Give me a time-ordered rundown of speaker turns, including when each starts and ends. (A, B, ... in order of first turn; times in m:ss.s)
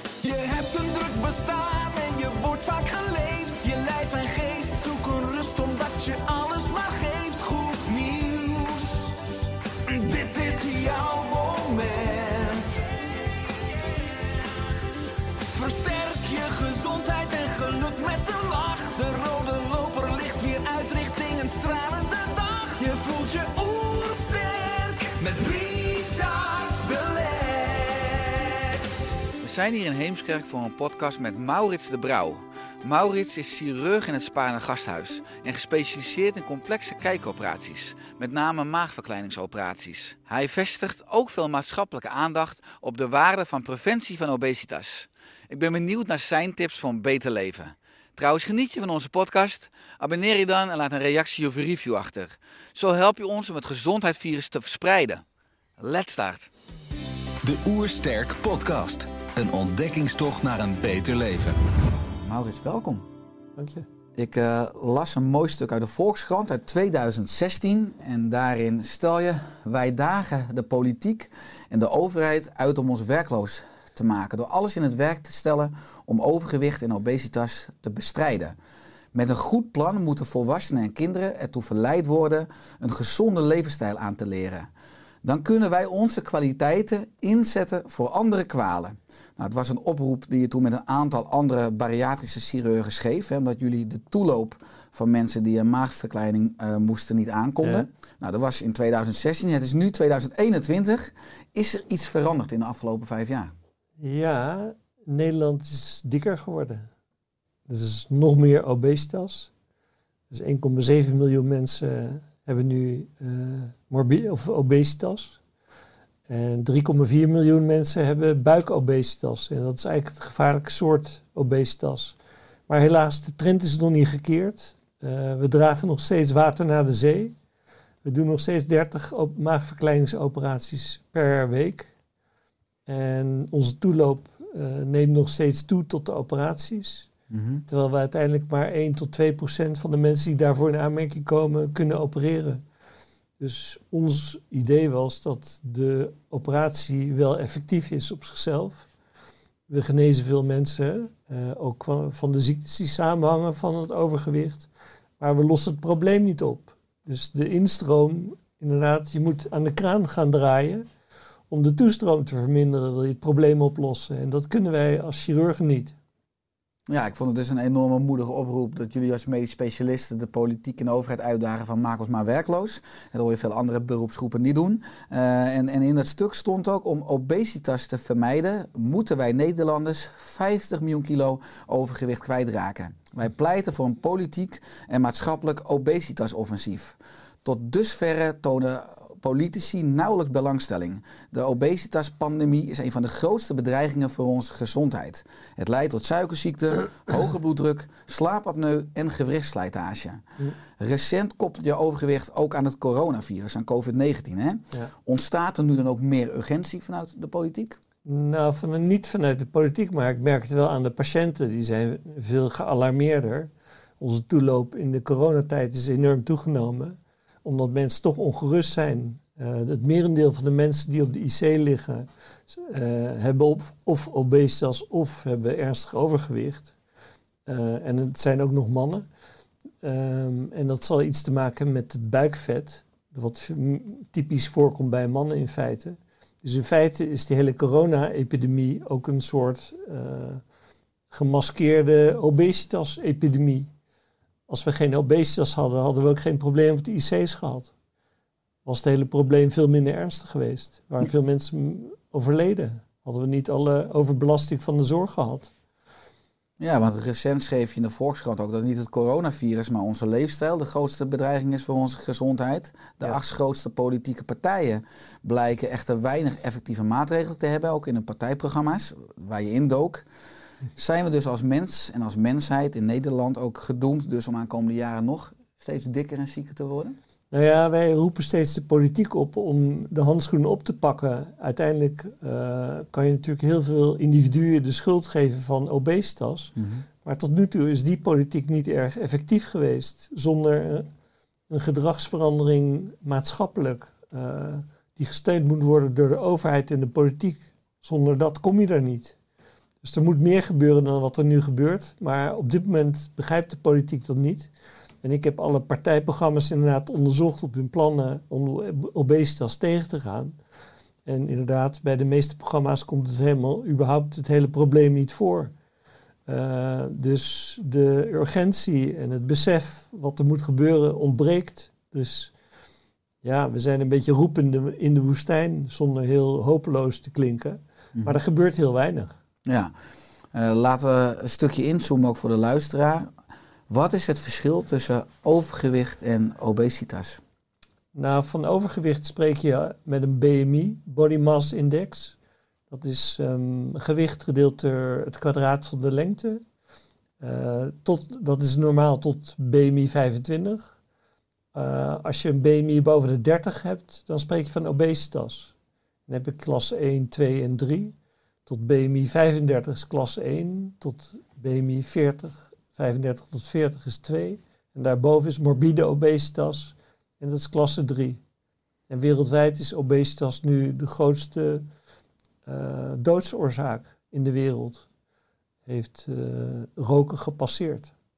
0:00.2-0:09.0 A
0:09.9-0:12.9 A
0:15.5-0:28.8 A
0:29.4-0:55.2 B
0:55.8-0:56.5 B
0:57.4-1:01.6 A
1:02.2-1:03.1 B
1:03.6-1:03.9 C
1:04.2-1:18.6 B
1:19.1-1:24.7 B
1:25.2-1:43.5 B
1:44.0-1:46.9 C
1:47.7-1:49.5 C
1:50.3-1:55.4 C
1:56.3-2:02.2 C
2:02.7-2:07.4 C
2:08.0-2:11.9 C
2:12.9-2:17.1 C
2:17.3-2:17.6 B
2:17.7-2:22.6 C
2:23.4-2:28.9 C
2:29.7-2:40.9 C
2:41.5-2:46.0 C
2:46.9-3:27.8 B
3:28.0-3:46.7 C
3:47.5-3:49.1 C
3:49.8-4:00.4 C
4:01.1-4:03.7 C
4:04.5-4:07.7 C
4:08.6-4:15.5 C
4:16.6-4:30.0 B
4:30.8-4:37.0 B
4:37.3-4:50.9 C
4:46.6-4:46.8 B
4:51.5-4:59.2 C
4:59.8-5:04.5 C
5:05.0-5:10.4 C
5:11.0-5:15.5 C
5:16.3-5:22.3 C
5:23.2-5:29.2 C
5:29.5-5:29.7 B
5:30.3-5:33.1 B
5:33.7-5:37.2 B
5:37.9-5:42.2 C
5:42.7-5:46.4 C
5:47.2-5:50.8 C
5:51.5-5:55.5 C
5:56.1-6:08.2 C
6:08.9-6:11.7 C
6:12.5-6:14.9 C
6:15.7-6:17.9 C